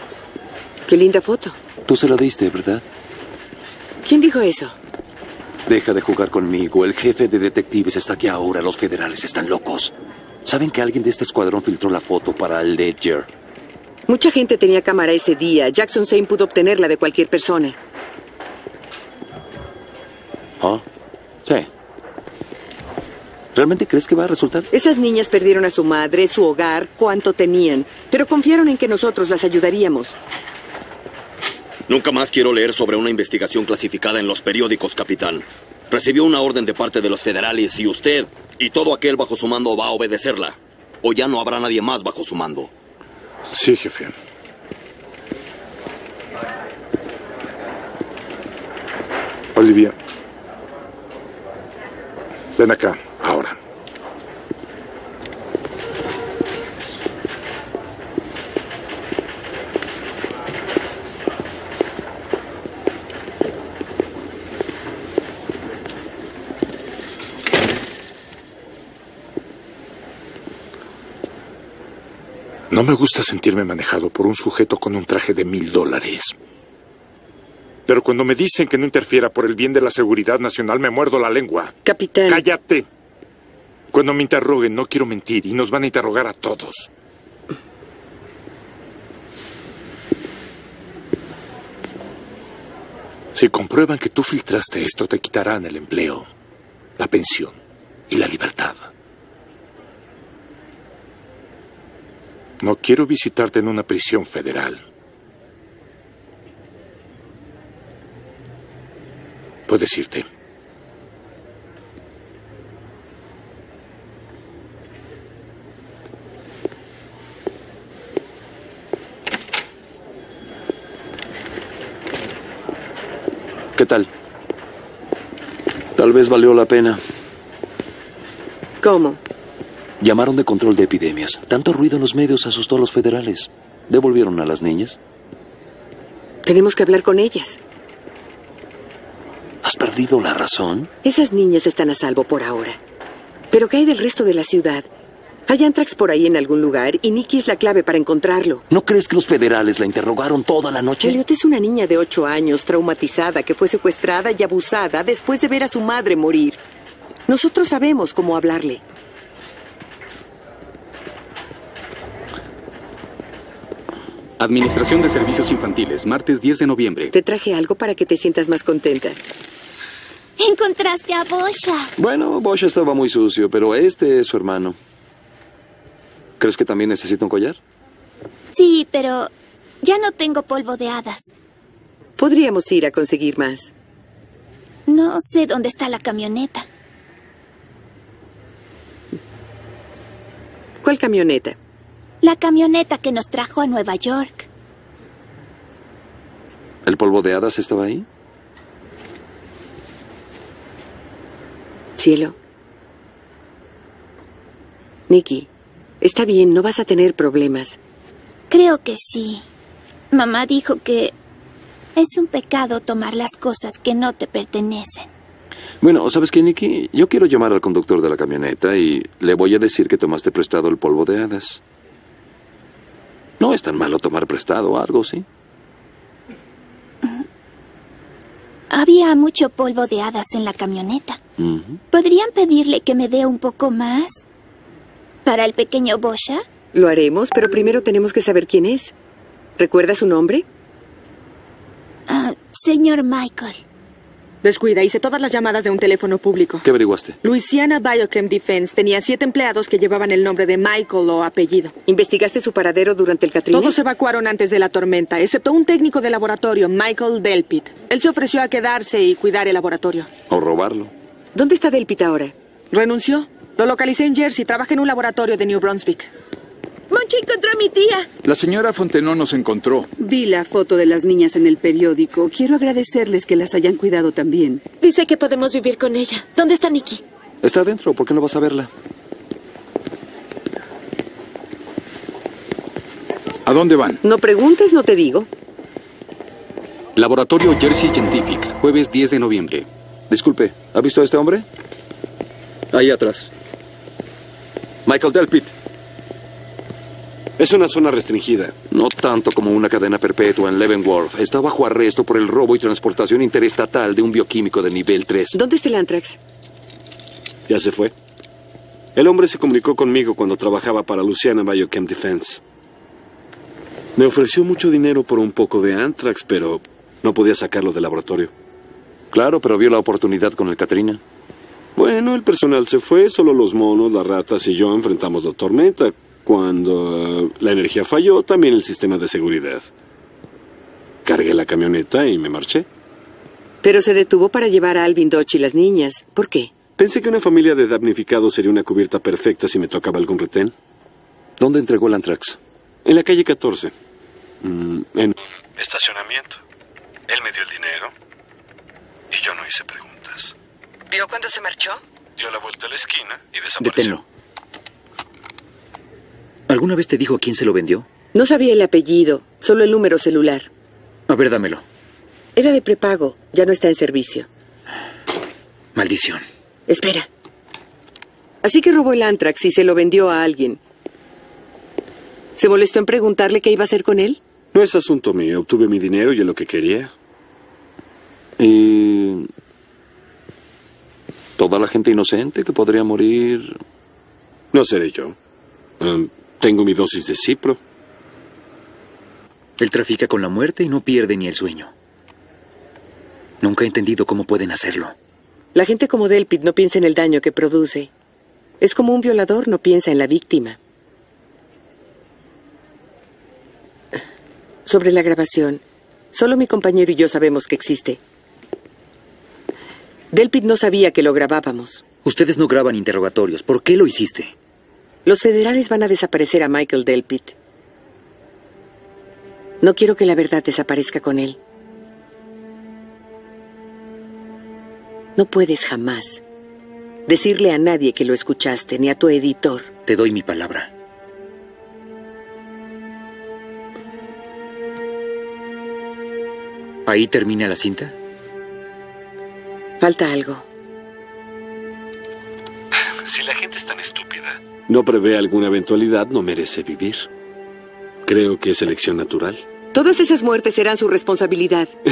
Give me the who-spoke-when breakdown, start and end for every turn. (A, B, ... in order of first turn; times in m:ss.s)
0:00.9-0:01.6 A
0:01.8-0:02.8 B
0:04.0-0:04.7 A
0:05.6-0:09.9 B
0:10.4-0:13.3 B
0:14.1-0:17.8 A
0:20.6-0:20.8 B
0:23.5-0:24.7 B
0:24.7-0:30.2 A
0:31.9-0:42.7 C
0:43.5-0:44.1 D
0:49.5-0:49.9 D
0:52.6-0:53.6 D
1:12.7-1:16.3 D
1:17.9-1:21.7 D
1:21.8-1:22.4 A
1:22.3-1:22.8 D
1:23.9-1:26.9 D
1:33.3-1:36.3 D
1:37.0-1:37.6 D
1:38.1-1:38.9 D
1:42.6-1:44.8 D
1:49.7-1:50.2 D
2:03.7-2:04.1 B
2:06.0-2:07.0 B
2:08.8-2:09.2 A
2:10.0-2:15.0 B
2:16.4-2:17.6 A
2:19.6-2:20.9 B
2:21.0-2:22.8 A
2:23.5-2:24.9 A
2:25.5-2:28.6 A
2:28.7-2:31.2 B
2:31.0-2:36.6 A
2:37.3-2:38.8 A
2:44.4-2:47.1 E
2:47.1-2:49.2 A
2:50.4-2:51.9 F
2:52.0-2:54.8 B
2:56.4-2:57.6 B
2:58.5-2:59.3 F
2:59.8-3:01.3 F
3:02.2-3:03.7 A
3:04.9-3:06.7 F
3:10.8-3:11.6 A
3:12.2-3:14.5 F
3:16.8-3:18.0 B
3:22.0-3:22.3 A
3:25.1-3:25.5 A
3:26.0-3:27.8 A
3:28.5-3:29.4 F
3:30.1-3:31.1 F
3:32.0-3:35.1 F
3:35.8-3:41.6 B
3:43.4-3:45.2 B
3:48.7-3:51.2 F
3:51.4-3:51.8 B
3:51.9-3:54.2 F
3:55.2-3:56.4 F
3:56.7-3:58.9 A
3:59.6-4:00.4 A
4:02.1-4:03.6 F
4:04.4-4:06.6 G
4:06.6-4:07.2 B
4:07.2-4:11.7 G
4:11.9-4:13.8 A
4:13.5-4:20.1 G
4:20.3-4:20.9 B
4:21.3-4:22.3 A
4:22.7-4:26.1 G
4:26.9-4:28.1 H
4:28.2-4:29.9 I
4:30.0-4:34.6 J
4:34.8-4:37.0 H
4:37.4-4:38.7 B
4:43.4-4:44.0 I
4:44.0-4:45.3 A
4:47.0-4:49.7 E
4:50.1-4:51.4 B
4:52.7-4:53.3 B
4:54.8-4:55.5 B
4:57.4-4:58.5 K
4:58.7-5:05.4 B
5:05.3-5:06.2 A
5:07.5-5:07.9 K
5:08.9-5:12.4 K
5:14.0-5:18.3 K
5:19.1-5:21.0 B
5:21.8-5:29.7 K
5:31.0-5:32.7 K
5:33.6-5:36.6 A
5:36.8-5:40.5 K
5:41.4-5:42.4 B
5:42.8-5:43.7 K
5:44.4-5:46.4 K
5:47.1-5:47.9 K
5:49.1-5:50.3 K
5:50.9-5:51.8 A
5:52.2-5:54.0 K
5:53.6-5:54.0 L
5:56.5-5:57.9 L
5:58.1-6:00.5 A
6:01.1-6:01.6 L
6:02.4-6:04.3 A
6:05.7-6:06.2 L
6:06.7-6:07.1 A
6:08.4-6:10.6 A
6:12.4-6:14.2 A
6:14.5-6:16.9 K
6:18.4-6:19.3 B
6:21.4-6:23.6 B
6:24.5-6:25.2 K
6:25.8-6:27.6 K
6:29.6-6:31.7 L
6:33.4-6:34.9 L
6:35.5-6:37.9 A
6:38.6-6:40.6 A
6:44.6-6:45.6 A
6:46.1-6:48.0 A
6:50.1-6:51.8 A
6:52.0-6:54.3 L
6:55.0-6:57.3 A
6:59.6-7:01.4 A
7:05.2-7:06.2 A
7:07.1-7:09.7 A
7:09.8-7:10.7 L
7:16.8-7:17.9 L
7:19.8-7:20.4 A
7:23.0-7:27.1 K
7:28.0-7:29.4 K
7:29.7-7:31.7 A